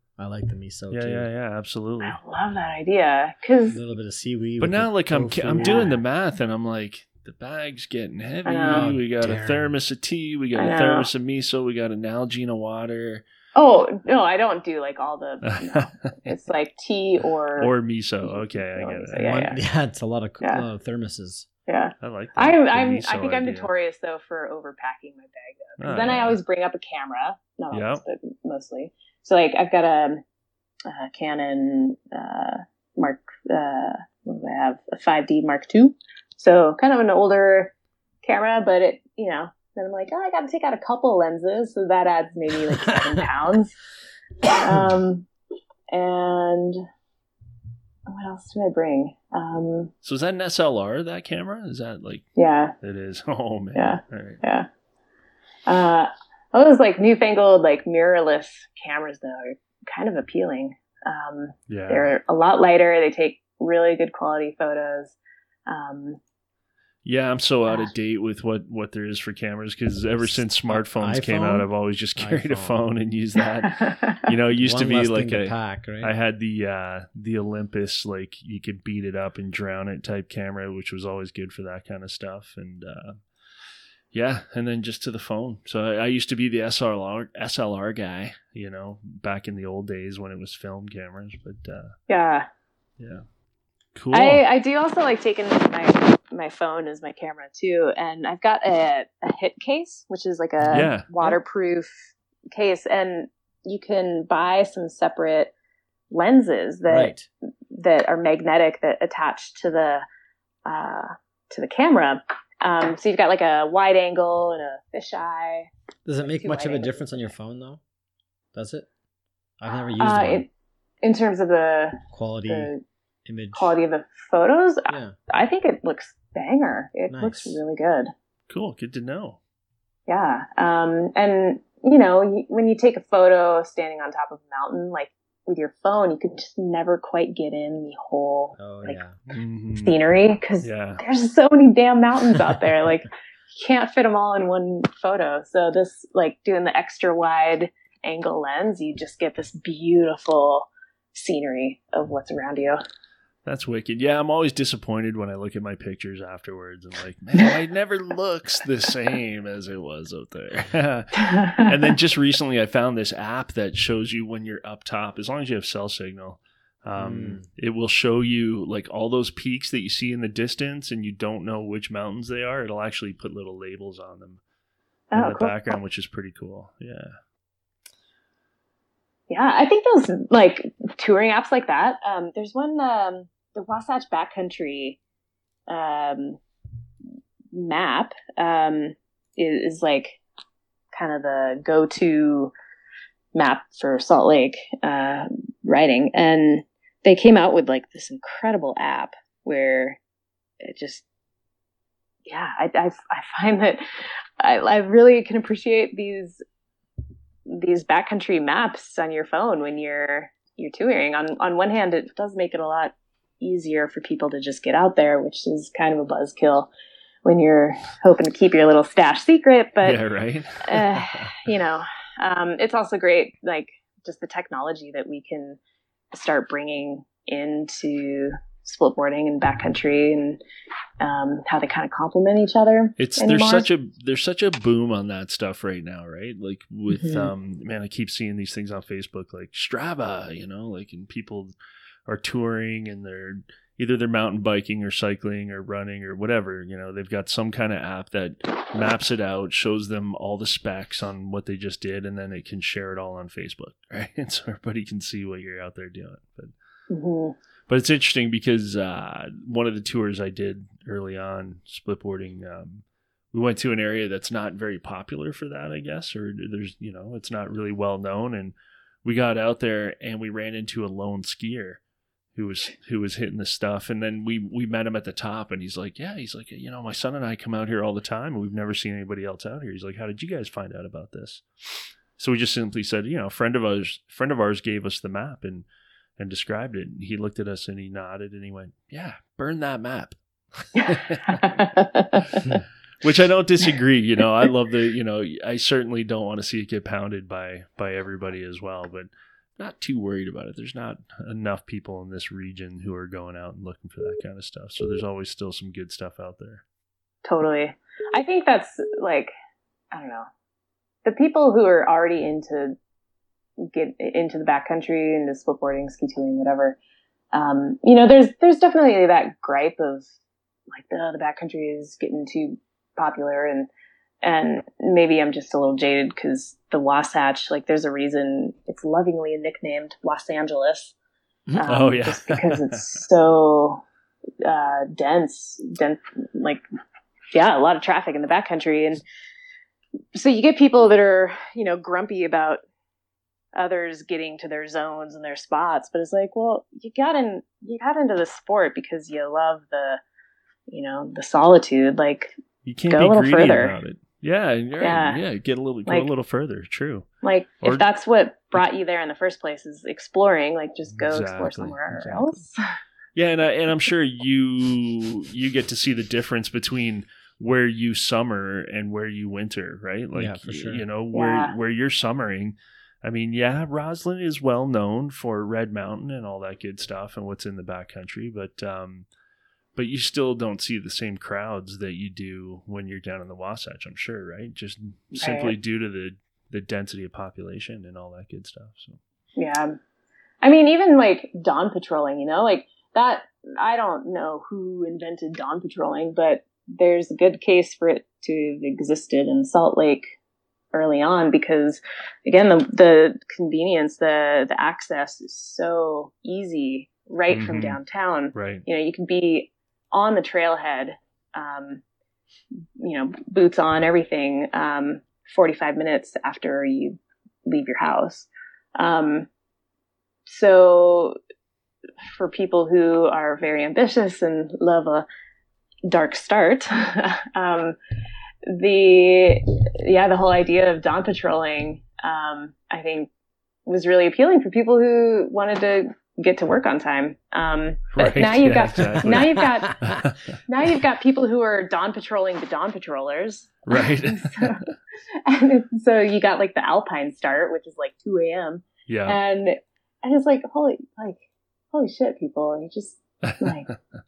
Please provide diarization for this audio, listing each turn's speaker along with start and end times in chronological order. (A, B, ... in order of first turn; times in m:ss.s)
0:00.2-0:01.3 A
0:00.9-0:02.2 B
0:02.0-0:03.8 C
0:03.7-0:05.9 A
0:04.6-0:13.2 B
0:05.6-0:05.9 C
0:08.4-0:08.9 C
0:08.7-0:09.7 A
0:10.6-0:11.1 C
0:13.5-0:17.7 C
0:15.4-0:16.3 B
0:17.6-0:19.4 B
0:18.2-0:19.6 C
0:19.2-0:21.5 A
0:21.7-0:30.2 C
0:22.0-0:23.7 B
0:25.8-0:26.4 B
0:27.7-0:28.0 B
0:30.9-0:43.7 C
0:44.5-0:45.3 C
0:45.9-0:46.8 C
0:48.1-0:49.9 C
0:50.0-0:52.3 B
0:52.4-0:52.7 C
0:52.8-0:54.4 B
0:53.7-0:54.7 C
0:55.7-1:05.2 C
1:01.7-1:02.1 B
1:05.7-1:06.2 C
1:07.0-1:23.2 B
1:10.2-1:12.8 A
1:13.7-1:14.2 C
1:14.6-1:16.1 A
1:24.1-1:32.0 B
1:32.1-1:32.5 C
1:33.0-1:33.2 B
1:33.9-1:34.4 B
1:34.1-1:45.5 C
1:40.7-1:41.1 B
1:40.7-1:41.3 A
1:46.1-1:47.1 C
1:46.9-1:47.3 A
1:47.7-1:50.0 C
1:50.6-1:55.7 C
1:56.0-1:57.8 A
1:56.2-1:56.9 C
1:58.5-1:58.9 A
1:59.6-2:00.4 A
2:00.0-2:00.5 C
2:01.0-2:02.8 C
2:02.1-2:02.7 A
2:03.2-2:03.7 A
2:03.5-2:08.1 C
2:04.9-2:05.1 A
2:07.1-2:07.6 A
2:08.5-2:09.4 B
2:10.1-2:19.0 C
2:18.6-2:19.1 A
2:19.3-2:20.0 B
2:19.7-2:32.8 C
2:20.6-2:21.0 B
2:33.4-2:54.4 B
2:41.2-2:41.7 C
2:47.0-2:47.4 A
2:55.1-2:55.8 C
2:55.1-2:57.2 B
2:59.3-3:05.0 C
3:05.7-3:06.4 C
3:07.5-3:10.2 C
3:10.9-3:12.5 C
3:13.3-3:20.0 C
3:20.6-3:21.0 C
3:22.2-3:26.4 C
3:27.5-3:36.7 C
3:37.2-3:40.0 C
3:39.8-3:41.3 B
3:40.6-3:45.6 C
3:46.1-3:50.4 C
3:51.0-3:53.7 C
3:53.0-4:01.5 B
3:56.9-3:57.3 C
4:02.0-4:16.5 B
4:16.9-4:17.3 C
4:17.7-4:31.8 B
4:32.3-4:41.4 B
4:42.2-4:45.6 B
4:46.2-4:51.7 B
4:50.8-4:52.4 C
4:53.0-5:06.6 B
5:07.2-5:09.3 C
5:09.9-5:10.3 C
5:11.0-5:12.8 C
5:13.6-5:16.8 C
5:17.3-5:20.1 C
5:20.7-5:23.7 C
5:24.2-5:30.9 C
5:31.6-5:33.8 C
5:31.7-5:32.9 B
5:34.4-5:36.6 C
5:37.3-5:39.0 C
5:40.1-5:42.6 C
5:43.5-5:50.0 C
5:50.7-5:52.3 C
5:52.6-5:57.1 B
5:52.9-5:53.8 C
5:54.8-5:55.2 C
5:57.2-6:02.6 C
5:57.6-5:57.9 B
6:01.0-6:02.4 B
6:03.2-6:19.0 B
6:10.1-6:10.8 A
6:11.1-6:11.5 C
6:19.8-6:29.0 B
6:25.2-6:25.6 C
6:29.4-6:29.8 C
6:30.4-6:40.1 C
6:40.7-6:51.8 C
6:47.3-6:47.8 B
6:48.3-6:48.6 B
6:52.8-6:59.3 C
7:00.2-7:01.2 C
7:02.1-7:05.0 C
7:05.9-7:07.8 C
7:08.4-7:13.1 C
7:13.7-7:19.8 C
7:17.9-7:20.3 B
7:19.0-7:20.0 A
7:20.5-7:24.7 C
7:23.7-7:24.6 B
7:25.2-7:33.7 C
7:28.9-7:29.2 B
7:33.2-7:33.7 B